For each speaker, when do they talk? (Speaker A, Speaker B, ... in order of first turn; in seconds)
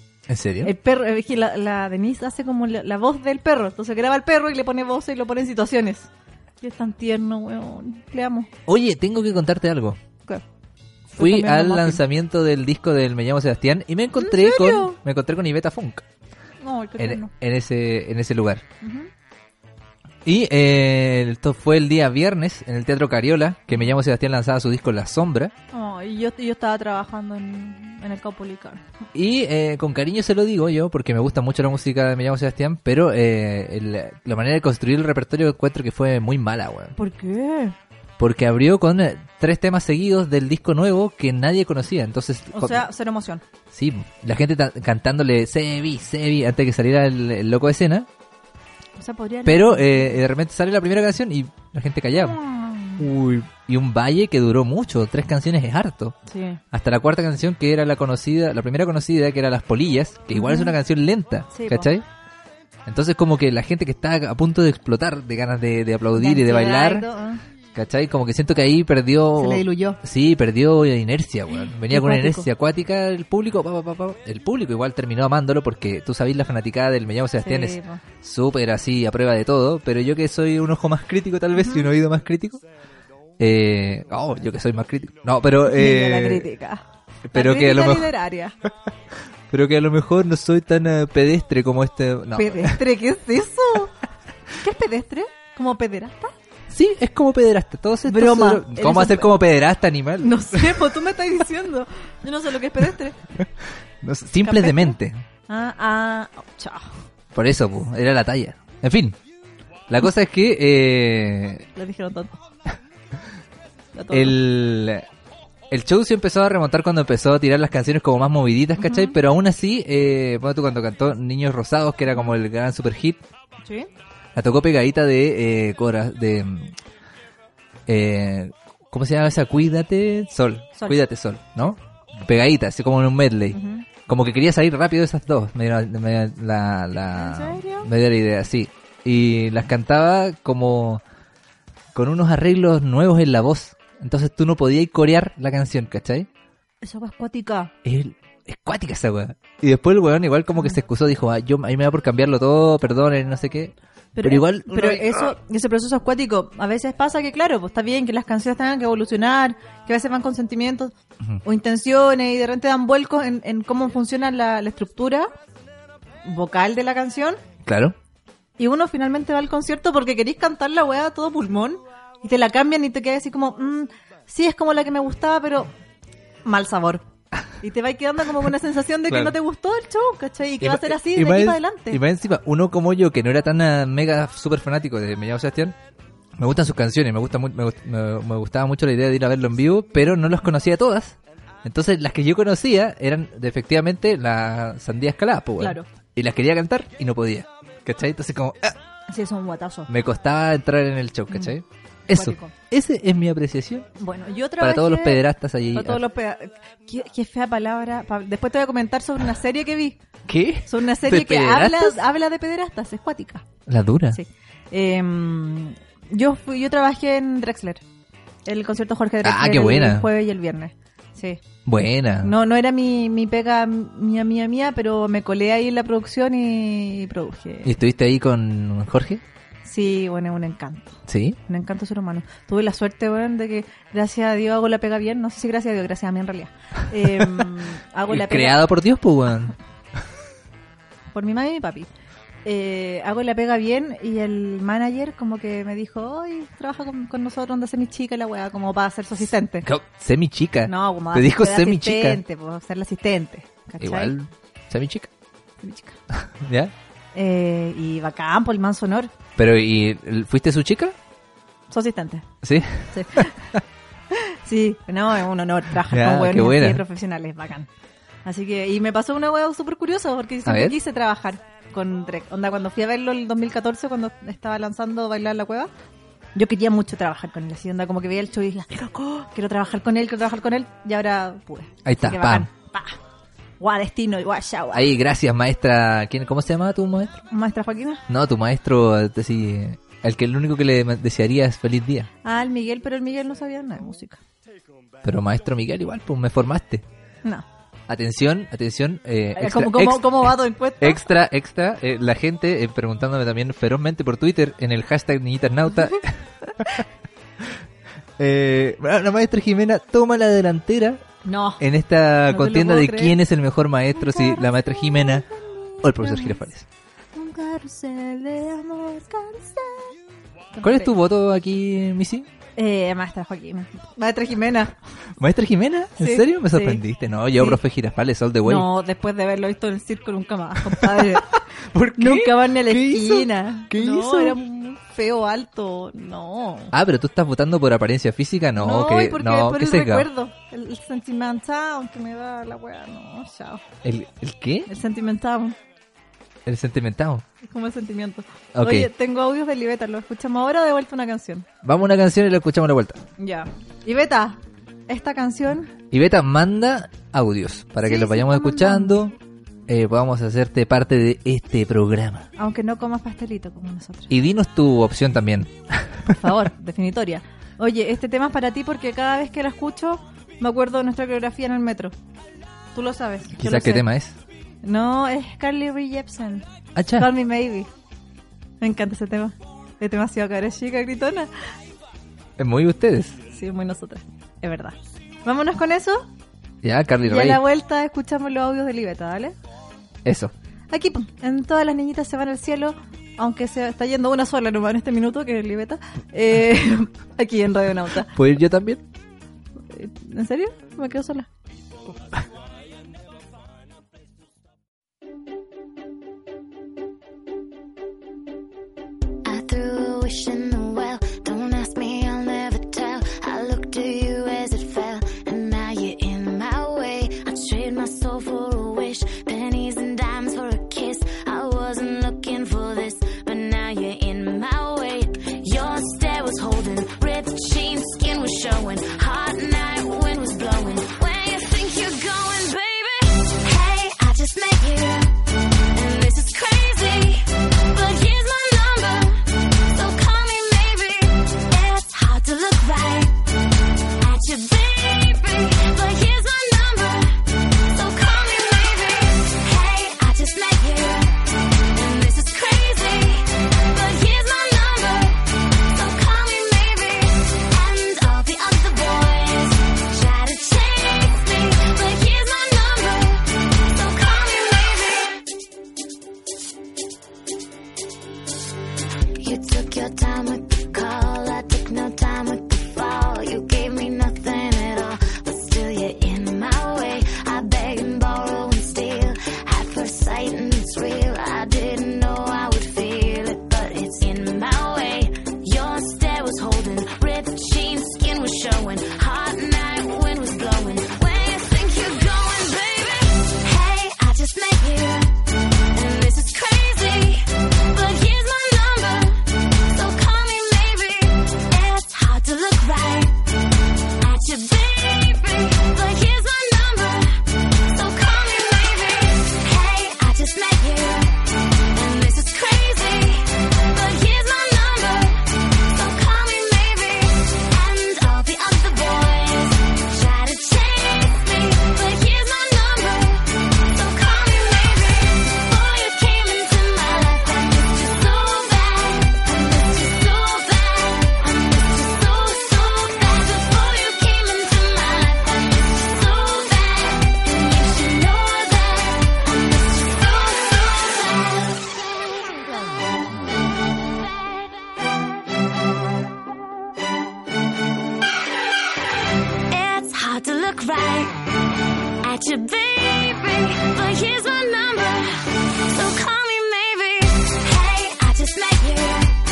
Speaker A: 0.3-0.7, 8.7-10.0, 11.2-16.0, 17.0-18.6, 20.2-25.5, 29.1-36.9, 38.2-42.9, 43.7-48.1, 49.4-52.4, 53.0-56.1, 56.7-62.0, 62.9-67.1, 67.7-82.6, 83.4-86.5, 87.3-88.1, 89.5-92.8, 96.7-100.9, 104.0-105.2, 107.3-109.2, 109.9-111.7, 114.1-115.0, 115.7-123.2, 124.3-126.7, 127.9-141.0, 141.9-146.3, 147.8-155.3, 167.6-167.9, 179.1-179.3, 180.6-185.7, 186.4-198.8, 199.9-203.9, 204.6-206.0, 210.3-212.0, 213.7-214.2, 219.2-220.1, 221.7-222.3, 227.6-229.2, 231.1-231.4, 237.1-237.4, 238.1-239.5, 249.6-252.2, 253.8-255.1, 256.1-256.7, 259.4-260.9, 262.4-263.6, 265.8-266.8, 270.4-270.8, 281.8-282.5, 284.7-287.2, 288.1-292.1, 295.0-296.8, 297.9-306.8, 308.2-311.0, 311.6-315.2, 315.8-316.6, 320.6-322.3, 325.2-328.7, 330.6-334.4, 336.7-340.1, 343.8-344.7, 346.4-347.2, 348.5-348.9, 351.6-353.0, 355.9-359.1, 359.7-362.3, 364.1-366.1, 373.4-374.1, 376.8-377.1, 382.4-383.2, 386.6-387.4, 390.0-390.3, 398.1-398.8
Speaker B: 0.6-6.1, 6.6-8.5, 11.1-12.0, 14.2-15.0, 16.6-17.3, 18.8-19.1, 25.7-28.8, 37.0-37.7, 42.5-43.4, 49.0-50.2, 52.1-53.1, 56.3-56.6, 60.3-60.7, 61.5-61.9, 66.1-67.4, 69.4-70.0, 71.9-72.5, 77.4-78.0, 81.5-81.9, 85.7-86.8, 87.3-88.5, 92.3-93.9, 94.6-96.3, 98.1-99.3, 100.2-103.2, 104.4-105.0, 105.5-106.9, 111.8-112.4, 113.9-114.3, 118.8-119.2, 123.6-123.9, 133.5-133.8, 137.2-137.9, 146.8-147.7, 154.2-165.3, 166.2-167.4, 168.6-175.7, 176.4-177.0, 177.6-182.0, 195.6-195.9, 199.1-199.9, 201.3-201.6, 202.1-202.5, 204.0-205.2, 205.7-210.0, 210.7-213.4, 214.1-217.8, 218.4-221.4, 222.2-227.7, 229.6-238.6, 241.1-241.9, 242.4-249.7, 250.7-254.1, 255.6-256.0, 257.1-259.1, 261.7-262.3, 262.9-263.5, 264.1-267.7, 268.2-275.7, 276.3-283.0, 283.6-284.9, 287.3-288.0, 292.2-294.2, 299.4-301.1, 311.2-311.6, 312.3-313.2, 313.9-316.4, 317.1-319.9, 320.5-320.9, 322.6-324.7, 326.0-326.8, 328.4-331.4, 331.9-336.7, 338.6-343.6, 344.7-345.6, 347.4-351.5, 353.2-355.7, 357.8-359.0, 362.4-364.1, 366.1-371.9, 372.7-373.8, 374.6-377.7, 378.6-381.3, 383.3-386.1, 387.0-389.3, 390.7-398.1, 399.7-401.3
Speaker C: 409.2-435.1, 435.7-443.2, 444.0-451.1, 451.7-465.2, 469.2-495.1, 495.7-503.2, 504.0-511.2, 511.7-541.8, 549.5-551.1, 552.0-559.1